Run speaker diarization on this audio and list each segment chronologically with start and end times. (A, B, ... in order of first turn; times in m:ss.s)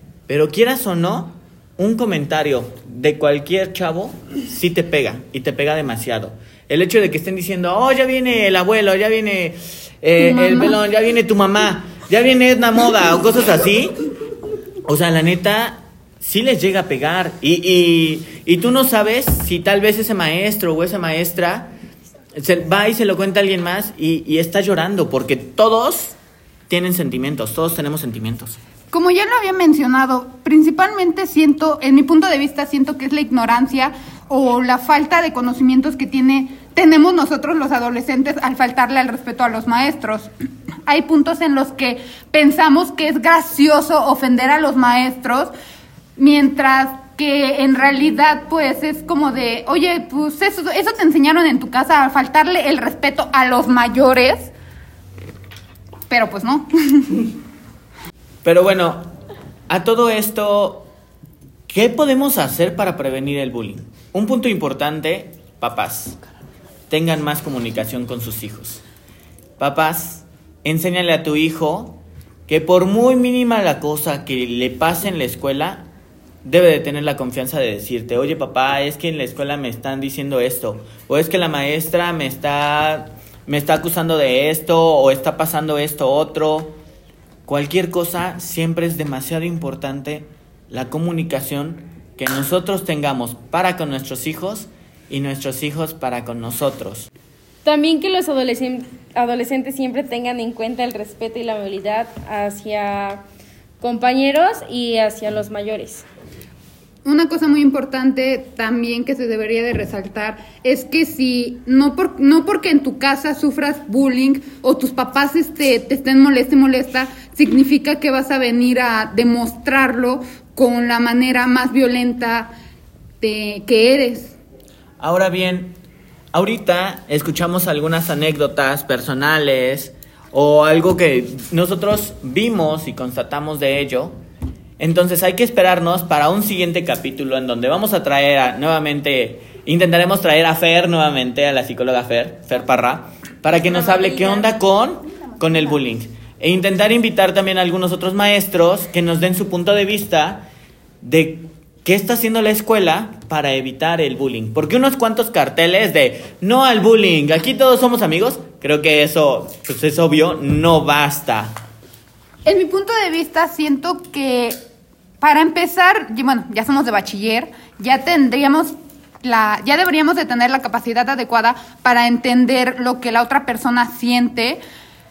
0:00.3-0:13.9 A
0:14.8-0:21.7 A
0:22.3-0:26.2 A
0:26.7-0:28.6 A
0:28.9-0:40.3 B
0:40.9-0:45.5 B
0:46.2-0:54.5 B
0:56.1-0:57.2 B
0:58.4-0:59.1 A
0:59.7-1:00.9 A
1:01.7-1:06.2 A
1:06.9-1:08.8 A
1:09.6-1:15.9 A
1:16.4-1:26.8 A
1:27.5-1:37.1 A
1:37.6-1:43.2 C
1:43.8-1:46.1 C
1:47.0-2:02.5 B
2:03.2-2:04.4 B
2:05.0-2:05.8 A
2:06.3-2:14.2 A
2:14.8-2:30.5 A
2:31.0-2:41.6 A
2:42.5-2:44.6 B
2:45.2-2:54.6 B